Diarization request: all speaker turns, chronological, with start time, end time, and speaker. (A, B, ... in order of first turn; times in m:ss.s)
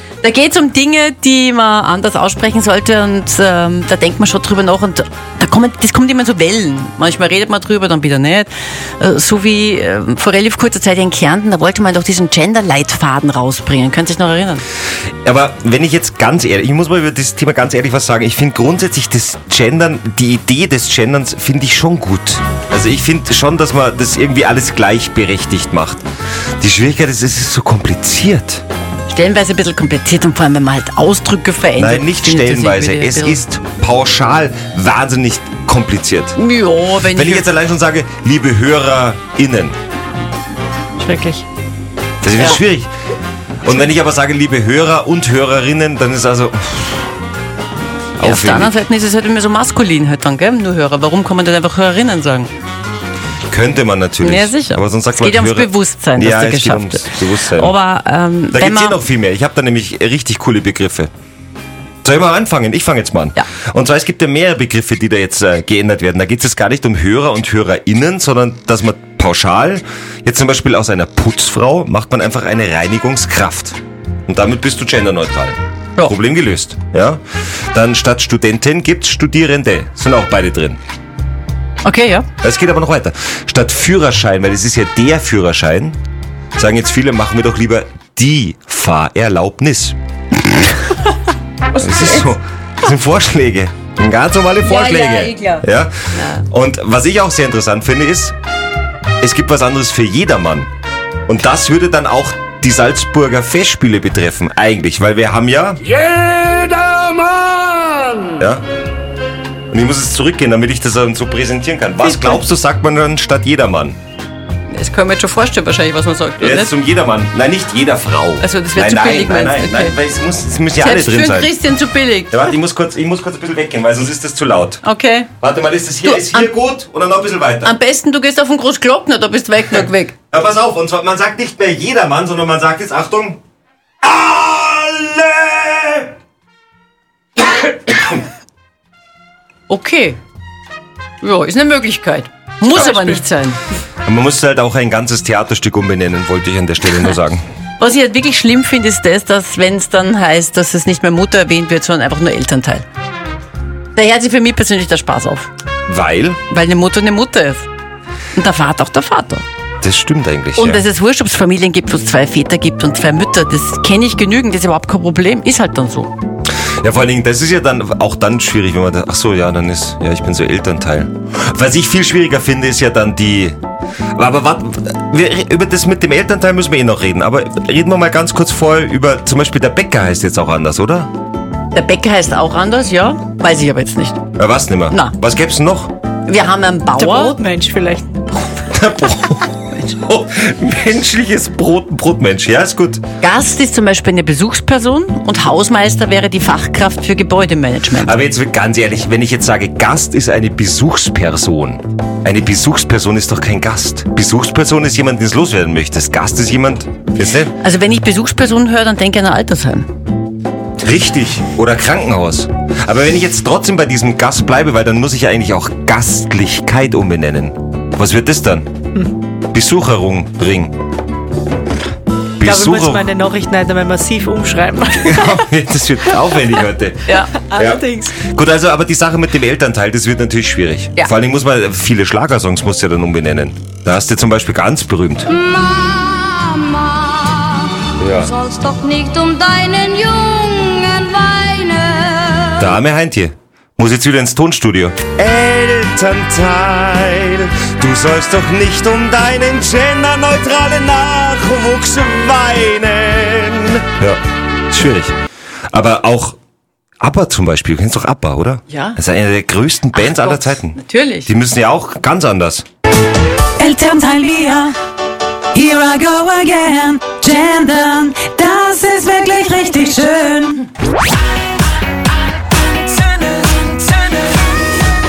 0:00.2-0:14.6 A
0:15.2-0:26.0 B
0:26.6-0:28.6 B
0:29.1-0:33.4 A
0:31.8-0:36.4 B
0:36.4-0:37.5 A
0:37.1-0:39.8 B
0:41.0-0:41.4 C
0:42.2-0:42.9 B
0:43.6-0:47.1 B
0:48.2-0:48.8 B
0:48.2-0:52.5 A
0:53.5-0:57.7 B
0:54.2-0:59.0 A
0:58.5-1:01.1 B
1:02.0-1:17.2 B
1:17.7-1:20.8 B
1:21.8-1:22.3 A
1:22.4-1:26.0 B
1:26.6-1:30.0 B
1:31.8-1:38.4 B
1:34.6-1:35.6 A
1:39.2-1:40.7 B
1:41.3-1:46.1 B
1:46.2-1:47.3 D
1:48.4-1:48.6 B
1:49.7-1:54.0 B
1:54.7-1:56.7 A
1:56.4-2:01.5 B
1:58.4-2:00.0 A
2:00.8-2:02.5 A
2:02.3-2:04.8 B
2:04.8-2:05.3 A
2:05.4-2:07.7 B
2:06.0-2:06.5 A
2:07.6-2:10.2 A
2:10.3-2:13.4 B
2:14.0-2:16.1 B
2:17.8-2:18.1 B
2:19.7-2:20.2 A
2:21.2-2:23.6 A
2:24.0-2:27.4 B
2:27.8-2:32.8 A
2:34.0-2:35.5 A
2:35.9-2:36.4 B
2:36.5-2:37.7 A
2:38.4-2:39.4 A
2:39.8-2:40.8 B
2:40.6-2:46.1 A
2:46.8-2:53.6 B
2:54.2-3:01.1 B
3:01.7-3:04.3 A
3:04.4-3:06.0 B
3:06.3-3:07.4 A
3:07.0-3:08.5 C
3:08.7-3:13.0 B
3:13.2-3:18.2 A
3:18.0-3:27.5 B
3:27.6-3:29.9 A
3:30.8-3:38.7 B
3:39.5-3:40.8 B
3:42.4-3:43.1 B
3:42.4-3:45.4 C
3:45.0-3:55.4 B
3:47.1-3:47.3 A
3:47.4-3:48.2 C
3:55.4-4:02.6 E
3:58.0-3:58.3 B
4:02.6-4:15.2 B
4:15.7-4:16.4 B
4:17.0-4:22.6 B
4:18.7-4:19.0 A
4:20.0-4:21.3 A
4:23.6-4:24.8 D
4:25.5-4:30.6 D
4:32.9-4:34.3 D